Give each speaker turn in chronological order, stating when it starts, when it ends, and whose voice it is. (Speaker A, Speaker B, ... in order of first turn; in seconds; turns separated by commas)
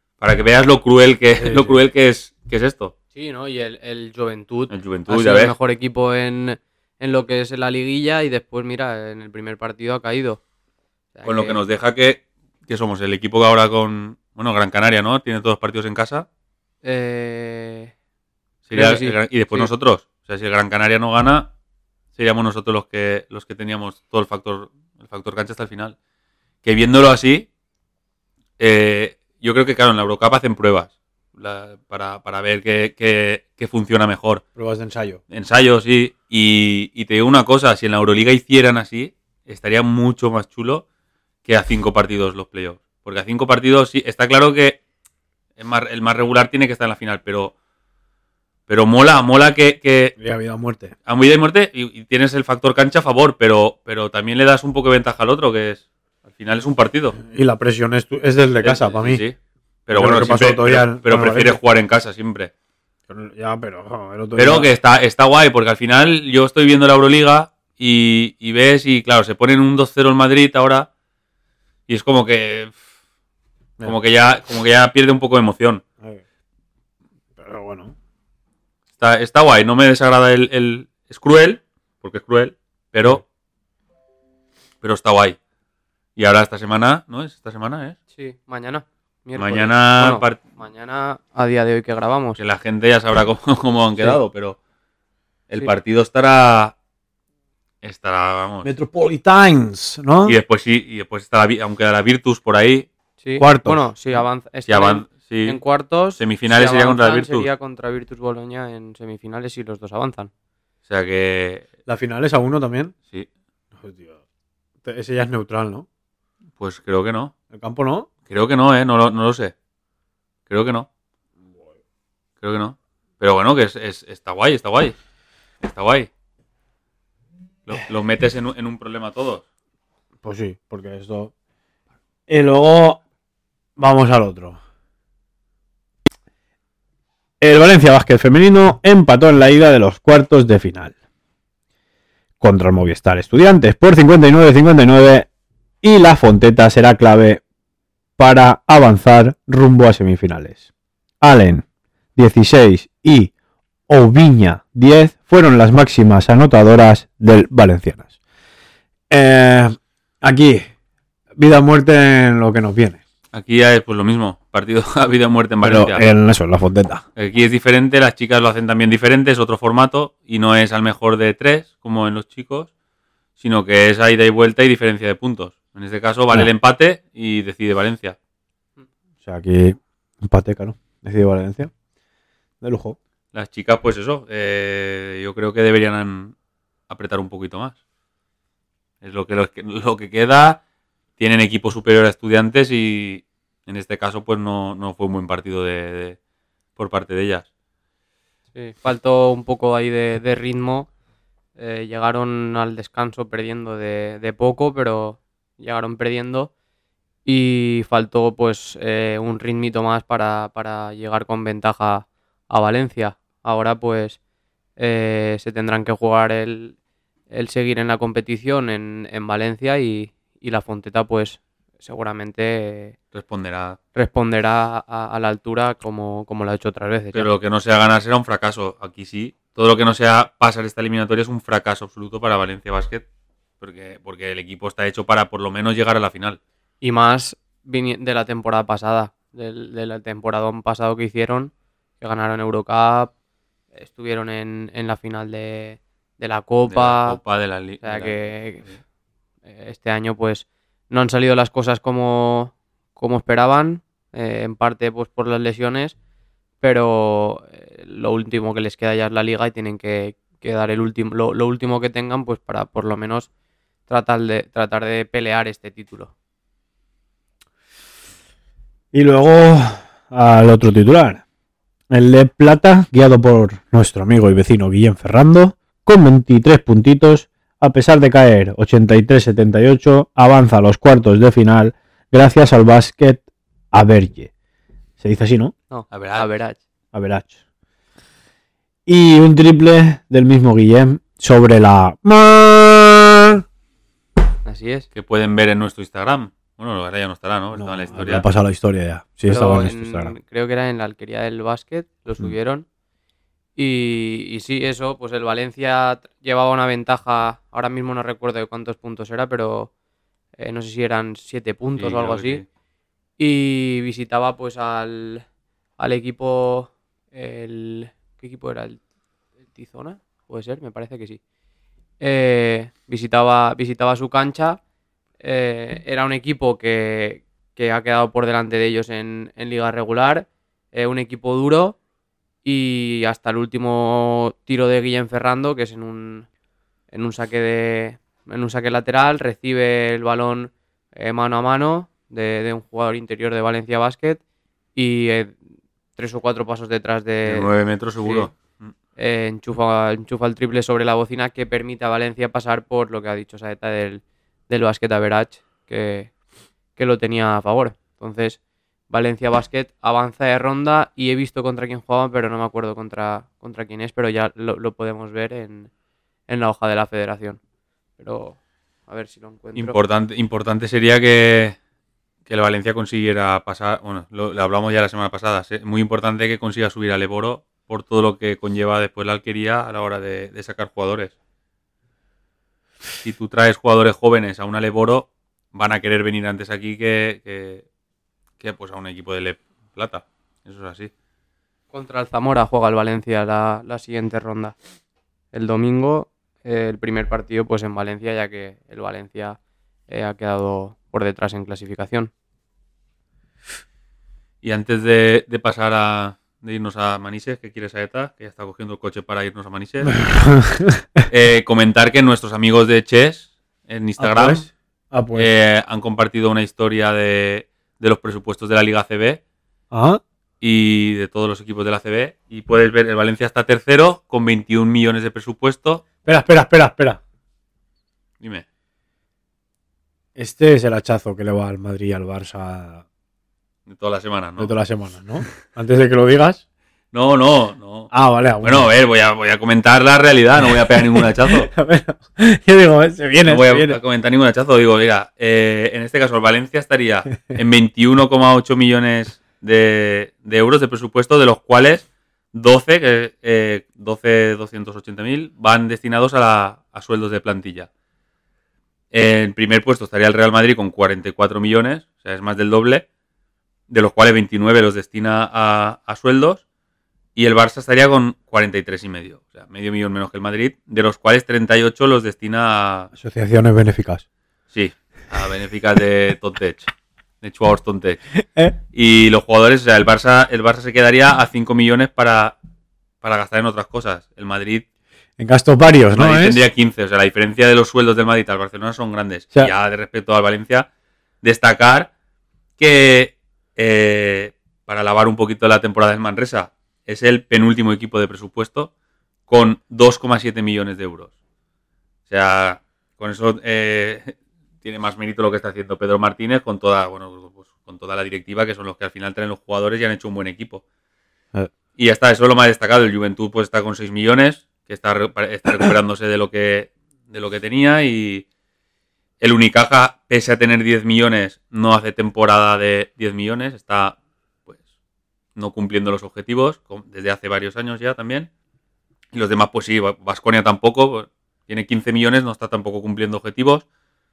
Speaker A: 0.2-2.9, Speaker B: 1.4-1.8, Speaker C: 3.1-10.4, Speaker A: 4.7-5.5, Speaker C: 11.1-11.6, Speaker A: 11.2-16.3, Speaker C: 16.8-17.9, Speaker A: 18.7-21.5, Speaker C: 18.7-19.7, Speaker A: 22.1-25.9, Speaker A: 26.6-27.5, Speaker A: 28.6-34.4, Speaker B: 34.5-35.2, Speaker A: 35.3-40.8, Speaker A: 41.5-44.8, Speaker A: 45.6-47.5, Speaker A: 48.7-50.1, Speaker B: 50.2-50.9, Speaker A: 51.0-57.2, Speaker B: 57.2-59.2, Speaker A: 58.6-59.3, Speaker A: 59.9-62.5, Speaker B: 59.9-61.6, Speaker B: 63.1-64.7, Speaker A: 64.3-70.9, Speaker A: 71.9-72.7, Speaker A: 73.8-75.8, Speaker B: 77.4-77.9, Speaker A: 79.0-83.2, Speaker A: 84.8-85.4, Speaker A: 86.2-88.0, Speaker C: 88.1-92.4, Speaker A: 89.4-90.4, Speaker A: 92.4-94.6, Speaker A: 95.5-96.7, Speaker A: 97.8-98.7, Speaker B: 98.6-100.4, Speaker A: 100.2-102.9, Speaker C: 103.2-110.3, Speaker B: 103.4-103.8, Speaker A: 104.7-105.6, Speaker A: 106.2-107.5, Speaker A: 110.9-111.6, Speaker B: 111.8-112.9, Speaker B: 113.8-114.2, Speaker B: 114.8-115.9, Speaker A: 116.6-117.3, Speaker B: 117.5-118.1, Speaker A: 118.3-119.5, Speaker A: 120.5-120.9, Speaker B: 121.5-121.7, Speaker A: 122.4-125.0, Speaker A: 125.6-126.1, Speaker A: 127.7-129.4, Speaker B: 130.2-131.3, Speaker B: 132.3-133.0, Speaker B: 133.8-134.6, Speaker B: 137.4-140.9, Speaker B: 142.4-145.3, Speaker B: 145.8-147.4, Speaker B: 148.2-150.6, Speaker B: 151.2-151.6, Speaker B: 152.2-153.3, Speaker B: 153.9-158.1, Speaker B: 159.1-160.7, Speaker B: 161.4-163.0, Speaker A: 163.3-166.0, Speaker B: 165.6-167.0, Speaker A: 167.2-172.7, Speaker A: 173.4-178.2, Speaker B: 179.2-181.7, Speaker B: 182.6-183.0, Speaker A: 183.3-186.3, Speaker A: 186.9-187.8, Speaker A: 189.0-190.6, Speaker A: 191.2-196.2, Speaker A: 196.8-197.5, Speaker C: 198.5-200.9, Speaker C: 201.6-206.5, Speaker C: 207.2-214.2, Speaker C: 214.8-216.8, Speaker C: 217.3-222.9, Speaker A: 223.1-223.8, Speaker C: 223.9-227.3, Speaker A: 227.1-233.0, Speaker A: 233.6-236.4, Speaker C: 236.8-243.1, Speaker C: 243.7-247.2, Speaker A: 246.7-248.7, Speaker C: 247.8-248.6, Speaker C: 249.5-255.9, Speaker C: 256.6-263.3, Speaker C: 263.9-266.1, Speaker B: 268.9-271.2, Speaker B: 271.9-284.3, Speaker B: 285.0-285.5, Speaker C: 285.7-286.6, Speaker A: 285.9-286.3, Speaker B: 286.9-287.4, Speaker B: 288.9-293.4, Speaker C: 294.4-294.9, Speaker A: 294.9-298.2, Speaker B: 297.5-300.1, Speaker C: 299.3-302.6, Speaker C: 303.6-309.7, Speaker C: 310.4-312.4, Speaker A: 311.8-312.4, Speaker C: 313.2-315.2, Speaker C: 315.8-318.8, Speaker C: 319.5-321.2, Speaker C: 322.0-324.6, Speaker C: 325.2-331.8, Speaker C: 332.4-336.3, Speaker C: 336.9-344.2, Speaker C: 344.8-345.4, Speaker C: 345.9-347.5, Speaker A: 347.2-348.7, Speaker C: 348.0-348.3, Speaker C: 349.0-356.1, Speaker C: 356.8-358.4, Speaker C: 358.9-365.7, Speaker C: 366.3-367.4, Speaker C: 368.0-369.8, Speaker A: 369.6-371.6, Speaker A: 372.3-381.1, Speaker A: 383.0-387.6, Speaker A: 388.4-390.9, Speaker C: 391.7-394.6, Speaker C: 395.3-399.4, Speaker C: 399.9-402.1, Speaker A: 404.4-409.9, Speaker B: 409.8-411.0, Speaker A: 411.1-414.5, Speaker B: 414.0-415.3, Speaker A: 415.1-419.2, Speaker B: 419.7-420.0, Speaker A: 420.4-425.8, Speaker B: 426.0-427.0, Speaker B: 430.1-432.8, Speaker A: 433.7-434.5, Speaker B: 434.4-436.4, Speaker A: 436.9-441.5, Speaker B: 437.9-438.7, Speaker B: 440.9-443.8, Speaker A: 443.2-457.7, Speaker A: 458.9-462.8, Speaker A: 463.7-466.4, Speaker A: 467.1-472.9, Speaker B: 472.9-474.0, Speaker A: 474.5-476.7, Speaker A: 477.2-478.0, Speaker A: 478.7-482.3, Speaker A: 483.0-484.6, Speaker B: 485.2-486.4, Speaker A: 485.9-490.7, Speaker A: 491.2-491.9, Speaker A: 492.6-498.7, Speaker A: 499.3-501.1, Speaker A: 502.1-510.6, Speaker A: 511.8-518.2, Speaker A: 519.2-524.0, Speaker A: 525.4-528.3, Speaker A: 529.1-533.6